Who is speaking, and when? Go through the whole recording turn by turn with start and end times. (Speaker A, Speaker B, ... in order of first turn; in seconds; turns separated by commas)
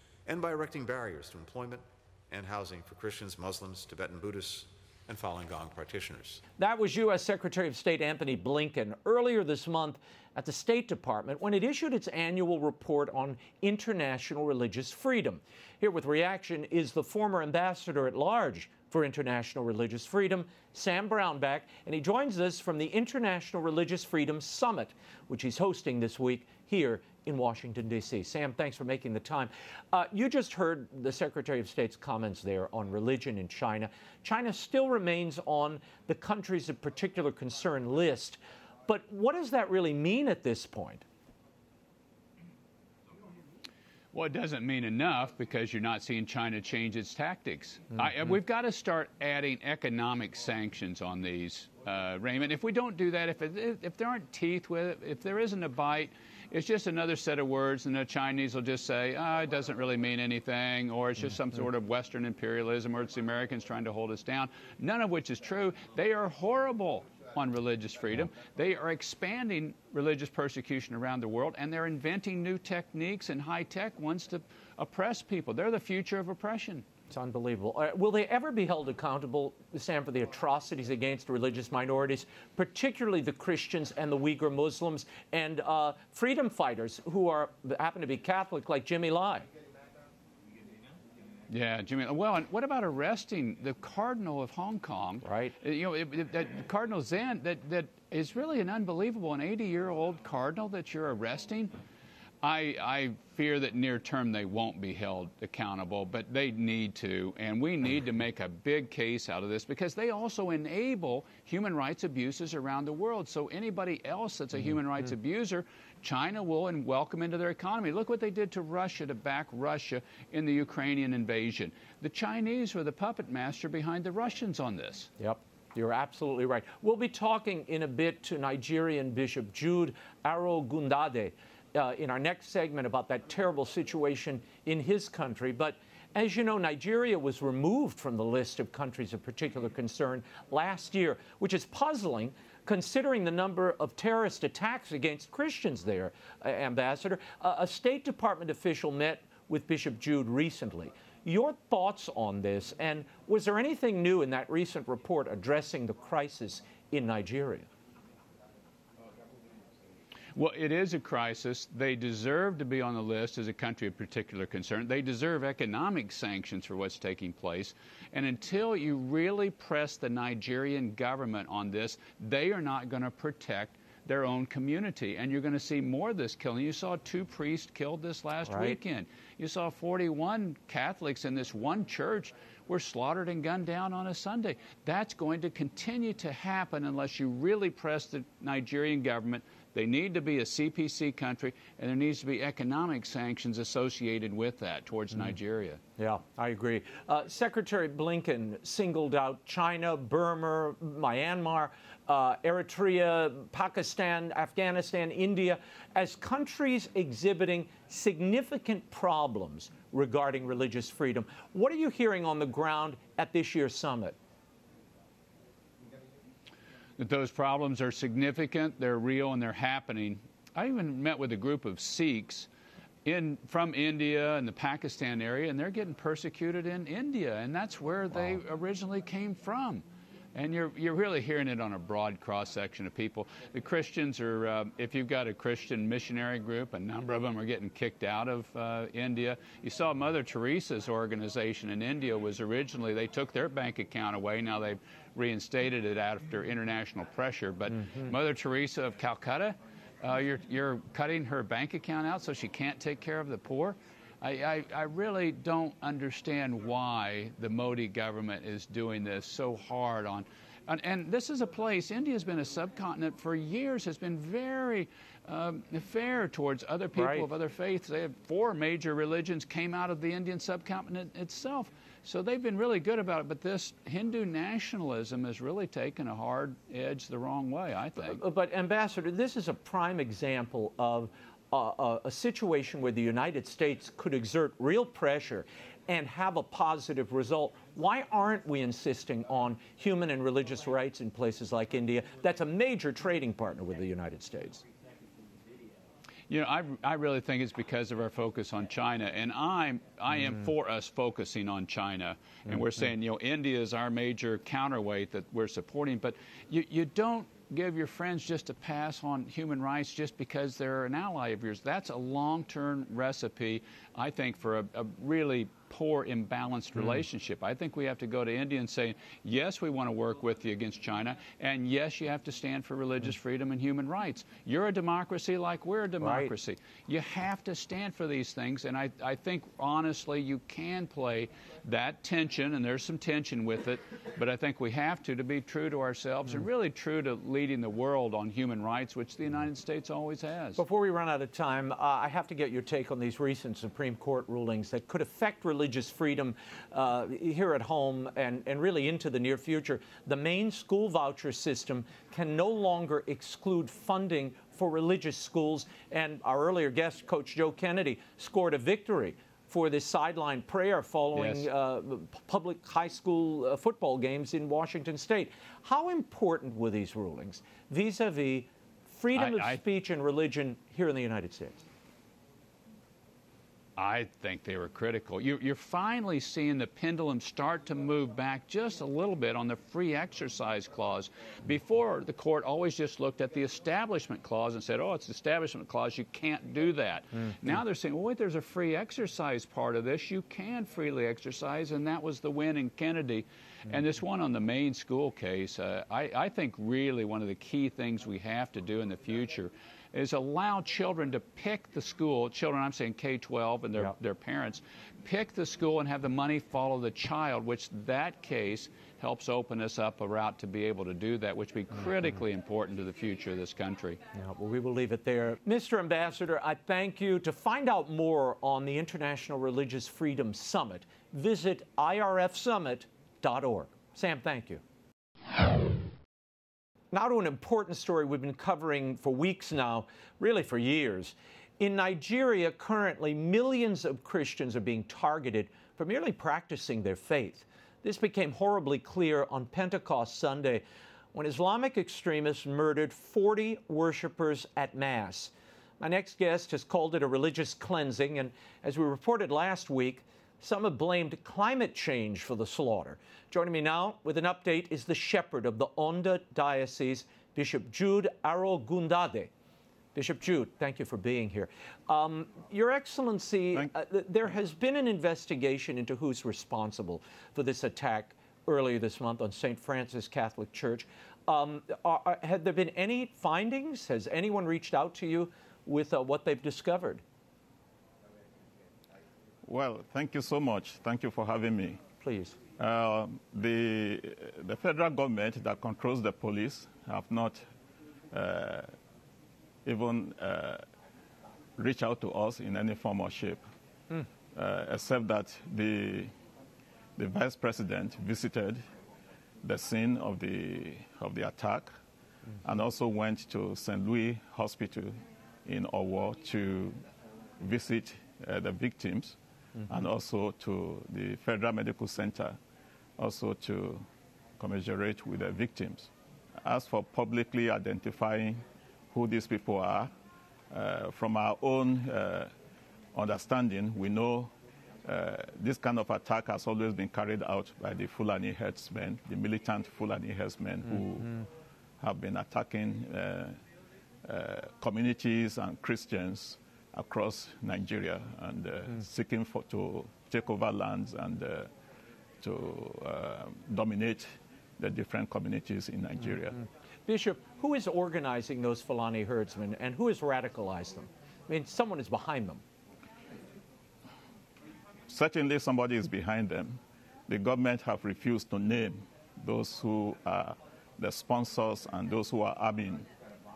Speaker A: 0.2-6.4, Speaker B: 6.6-41.0, Speaker C: 44.1-76.8, Speaker B: 77.1-89.5, Speaker C: 91.5-101.8, Speaker B: 95.2-95.6, Speaker C: 102.4-125.1, Speaker B: 125.2-157.7, Speaker C: 160.3-195.8, Speaker B: 178.4-178.8, Speaker B: 196.0-214.2, Speaker C: 217.0-222.5, Speaker C: 223.0-278.2, Speaker B: 266.9-267.3, Speaker B: 278.0-294.6, Speaker C: 296.3-340.6, Speaker B: 326.0-326.3, Speaker B: 340.6-371.6, Speaker C: 361.1-361.5, Speaker C: 369.1-369.6, Speaker C: 373.8-414.0, Speaker B: 414.1-424.6, Speaker B: 426.9-459.3, Speaker B: 459.9-477.0, Speaker D: 479.4-481.8, Speaker B: 482.0-482.4, Speaker D: 482.6-487.5, Speaker D: 488.1-488.7, Speaker D: 489.6-490.6, Speaker D: 491.6-493.4, Speaker D: 494.3-496.1, Speaker D: 497.0-498.6, Speaker D: 499.4-501.8, Speaker D: 502.4-506.8, Speaker D: 507.4-509.2, Speaker D: 509.7-512.4, Speaker D: 513.0-513.8, Speaker D: 514.4-515.9, Speaker D: 516.4-519.9, Speaker D: 520.5-522.3, Speaker D: 522.9-524.3, Speaker D: 524.8-531.2, Speaker D: 531.8-533.4, Speaker D: 534.0-541.5, Speaker D: 542.2-546.4, Speaker B: 546.9-552.4, Speaker D: 554.9-562.9